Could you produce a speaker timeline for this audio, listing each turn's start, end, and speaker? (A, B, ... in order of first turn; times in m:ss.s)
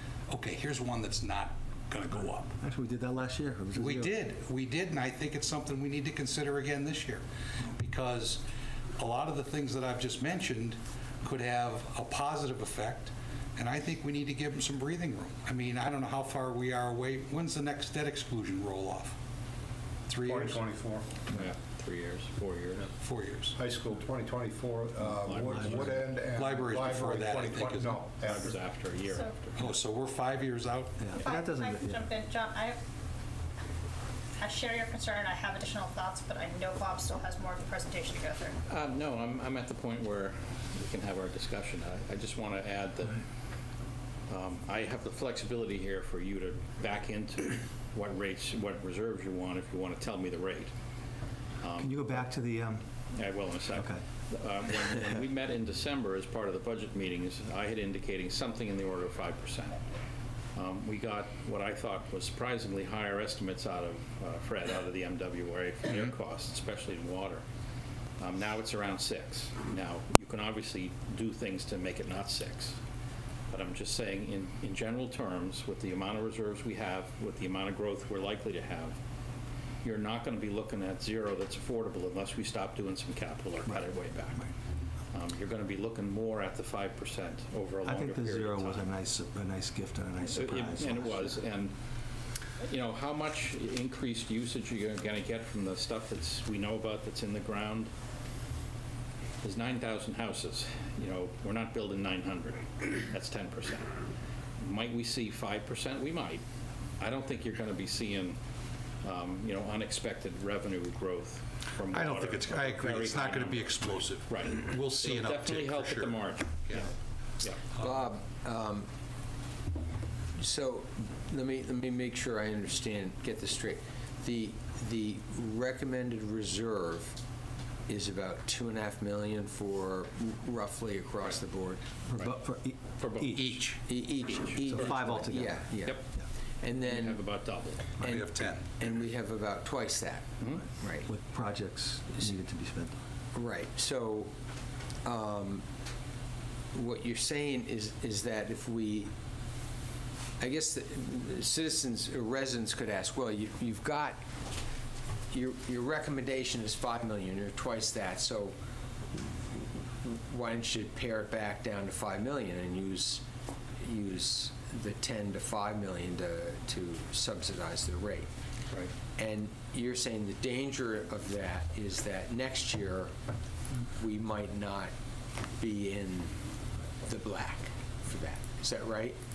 0:00.3-0:02.6 A
0:02.6-0:04.1 B
0:03.7-0:08.4 A
0:09.0-0:19.2 A
0:20.1-0:20.6 A
0:20.2-0:21.1 C
0:21.3-0:22.9 D
0:23.0-0:23.6 A
0:23.6-0:28.5 C
0:25.0-0:26.0 D
0:25.5-0:26.0 B
0:26.3-0:28.3 A
0:28.2-0:29.7 D
0:29.0-0:29.3 E
0:29.6-0:31.1 A
0:31.0-0:32.0 B
0:31.1-0:32.8 E
0:34.4-0:38.6 E
0:38.7-0:43.2 D
0:44.3-0:50.7 D
0:51.6-0:52.0 D
0:51.8-0:52.8 B
0:53.1-0:59.8 D
0:53.7-0:54.0 B
1:00.5-1:07.4 D
1:08.2-1:12.8 D
1:13.5-1:19.0 D
1:19.8-1:24.5 D
1:25.1-1:28.8 D
1:27.8-1:31.3 B
1:30.2-1:31.7 D
1:32.6-1:37.9 D
1:39.4-1:44.0 D
1:44.6-1:46.4 D
1:47.0-1:48.4 D
1:49.0-1:57.6 D
1:51.9-1:56.9 A
1:57.8-1:58.8 F
2:00.3-2:07.2 F
2:07.9-2:11.8 F
2:12.1-2:13.6 B
2:13.0-2:13.5 D
2:13.3-2:13.8 A
2:13.9-2:17.3 F
2:14.6-2:15.7 B
2:14.6-2:14.9 D
2:16.7-2:17.9 D
2:18.0-2:21.0 F
2:18.0-2:18.8 A
2:20.8-2:23.0 B
2:23.3-2:24.3 F
2:25.0-2:25.6 F
2:26.7-2:29.1 F
2:30.4-2:34.2 F
2:35.3-2:38.5 F
2:39.1-2:43.2 F
2:43.8-2:48.3 F
2:49.2-2:53.1 F
2:53.9-2:54.9 F
2:55.6-2:56.3 F
2:57.0-2:59.2 F